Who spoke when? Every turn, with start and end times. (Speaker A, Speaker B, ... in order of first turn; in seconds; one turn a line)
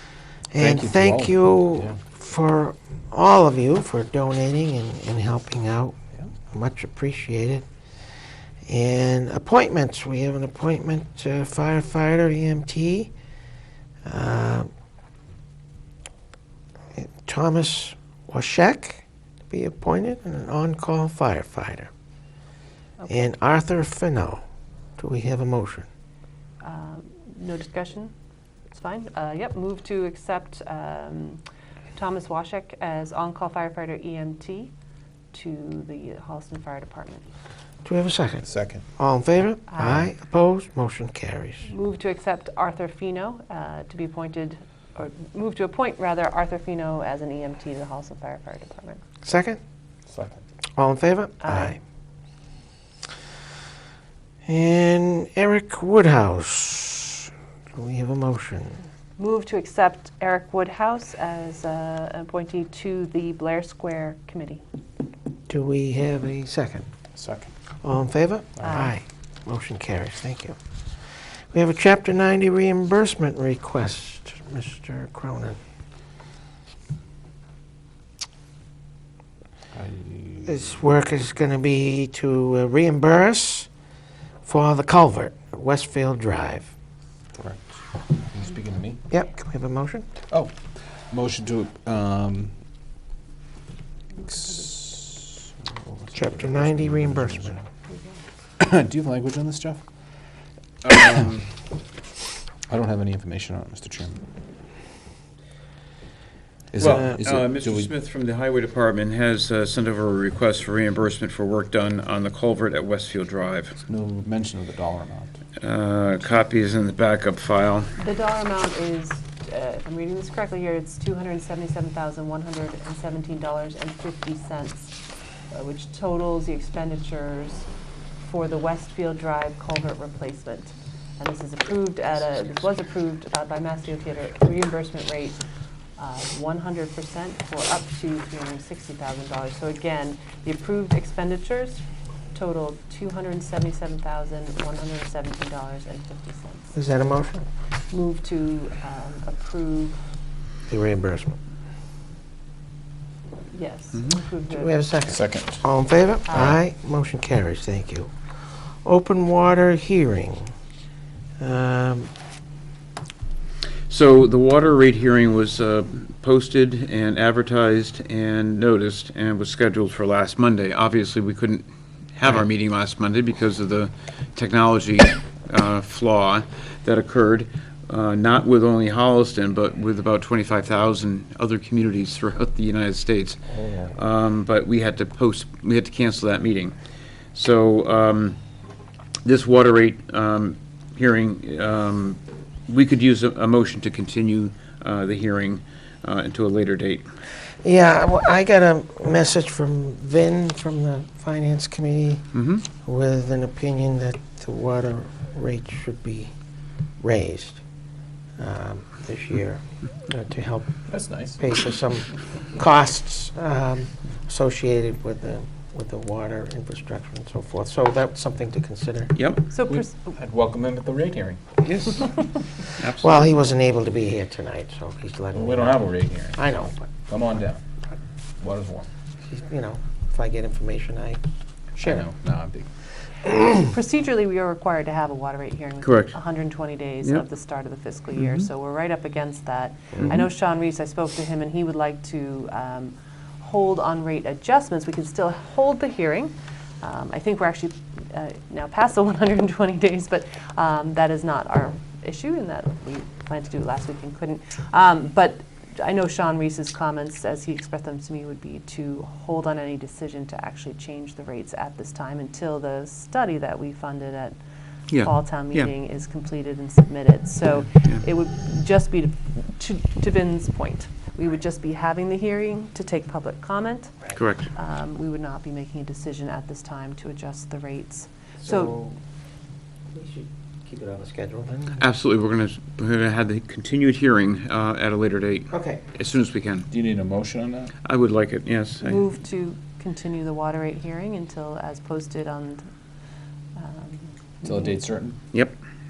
Speaker A: 0.5-7.7
Speaker B: 0.6-2.0
Speaker A: 8.7-13.1
Speaker A: 14.1-14.7
Speaker A: 17.0-21.9
Speaker C: 23.0-23.3
Speaker A: 23.1-24.4
Speaker A: 25.0-25.9
Speaker C: 26.6-28.1
Speaker C: 28.7-31.4
Speaker C: 31.9-34.7
Speaker C: 35.3-37.3
Speaker A: 37.8-38.5
Speaker B: 38.4-38.9
Speaker A: 39.0-41.7
Speaker C: 39.7-40.1
Speaker C: 41.6-49.0
Speaker A: 49.2-49.6
Speaker B: 50.1-50.4
Speaker A: 50.8-51.8
Speaker C: 51.4-51.8
Speaker A: 54.5-58.9
Speaker C: 59.2-64.6
Speaker A: 65.5-66.9
Speaker B: 67.2-67.5
Speaker A: 67.8-70.6
Speaker C: 68.6-69.0
Speaker A: 71.5-75.6
Speaker B: 79.8-80.7
Speaker A: 80.5-83.7
Speaker A: 84.4-86.7
Speaker B: 87.3-89.0
Speaker A: 89.1-90.1
Speaker B: 90.3-92.5
Speaker B: 94.3-95.4
Speaker A: 96.1-97.6
Speaker B: 96.1-97.6
Speaker B: 98.6-99.8
Speaker D: 100.8-101.5
Speaker B: 102.7-104.2
Speaker B: 106.7-107.9
Speaker D: 106.8-113.8
Speaker B: 113.9-115.4
Speaker D: 115.6-117.9
Speaker C: 118.0-125.0
Speaker C: 125.5-127.7
Speaker C: 128.2-135.4
Speaker C: 136.0-141.8
Speaker C: 142.3-146.7
Speaker A: 146.8-147.5
Speaker C: 147.9-150.0
Speaker A: 150.7-151.4
Speaker C: 153.5-154.8
Speaker A: 154.5-158.1
Speaker B: 155.1-155.7
Speaker C: 156.3-156.6
Speaker A: 158.8-160.5
Speaker A: 161.4-162.1
Speaker D: 163.9-186.8
Speaker D: 187.3-188.4
Speaker D: 189.2-197.1
Speaker A: 197.6-206.3
Speaker D: 202.3-202.7
Speaker A: 207.0-207.6
Speaker A: 208.4-210.8
Speaker B: 210.9-211.4
Speaker A: 211.4-219.2
Speaker D: 219.2-219.5
Speaker C: 219.5-220.1
Speaker B: 219.7-221.6
Speaker D: 222.7-223.3
Speaker A: 223.0-225.8
Speaker B: 225.3-226.5
Speaker A: 226.3-226.9
Speaker B: 227.1-227.6
Speaker B: 228.4-228.9
Speaker A: 229.2-231.2
Speaker B: 231.8-232.7
Speaker C: 233.5-264.4
Speaker D: 235.8-236.2
Speaker D: 264.9-265.7
Speaker C: 265.0-274.0
Speaker D: 274.2-274.5
Speaker C: 274.5-278.8
Speaker A: 278.4-278.9
Speaker A: 279.9-281.8
Speaker D: 281.8-286.7
Speaker A: 285.5-285.8
Speaker B: 286.7-287.8
Speaker D: 287.8-289.0
Speaker C: 288.8-292.7
Speaker C: 293.6-294.8
Speaker B: 294.4-295.2
Speaker D: 295.3-295.6